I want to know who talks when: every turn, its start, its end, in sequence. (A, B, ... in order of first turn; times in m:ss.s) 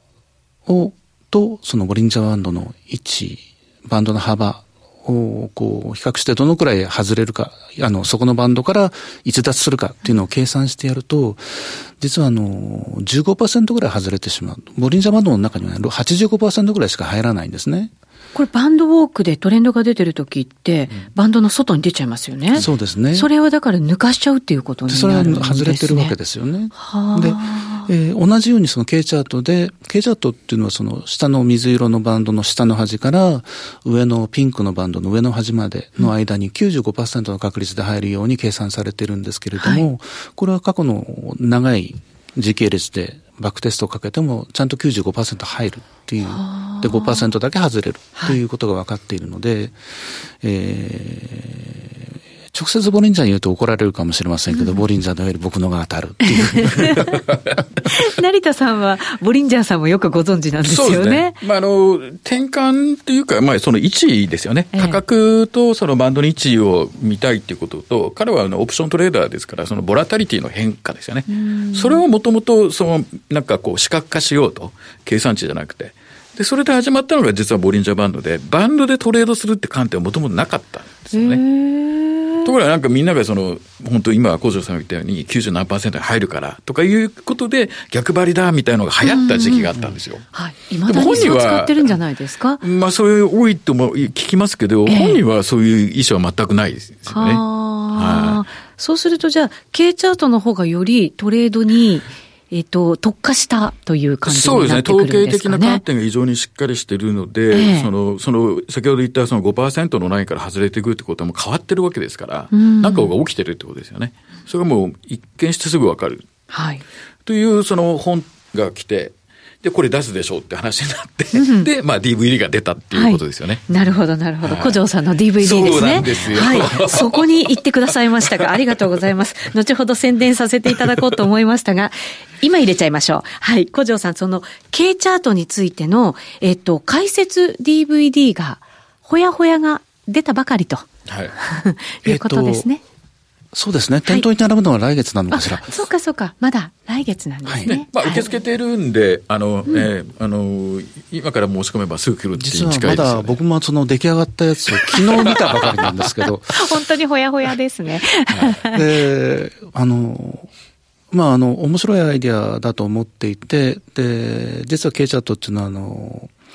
0:00.6-0:17.9 A
0:18.3-0:26.1 B
0:22.5-0:23.3 A
0:24.9-0:57.2 A
0:26.7-0:27.9 B
0:39.6-0:39.8 B
0:46.2-0:47.3 B
0:54.5-0:54.8 B
0:56.2-0:57.2 B
0:57.8-1:01.4 B
1:00.6-1:21.4 C
1:04.7-1:05.0 B
1:11.3-1:12.0 B
1:21.1-1:22.5 B
1:22.4-1:30.2 C
1:29.0-1:32.6 B
1:30.9-1:32.0 C
1:32.6-1:38.4 C
1:34.8-1:35.2 B
1:37.1-1:45.8 B
1:44.2-1:56.2 C
1:47.5-1:47.9 B
1:52.5-1:53.1 B
1:56.5-1:56.8 B
1:57.2-2:03.7 C
2:01.3-2:01.7 B
2:02.9-2:20.8 B
2:04.4-2:04.8 C
2:05.4-2:07.6 C
2:08.2-2:08.8 C
2:21.1-2:21.3 C
2:21.4-2:22.8 B
2:22.0-2:22.7 A
2:23.5-2:25.7 A
2:25.3-2:28.3 B
2:27.4-2:27.7 A
2:27.6-2:33.4 C
2:32.4-2:36.7 A
2:35.3-2:35.9 C
2:36.5-2:38.8 B
2:38.7-2:40.5 A
2:41.1-2:46.3 A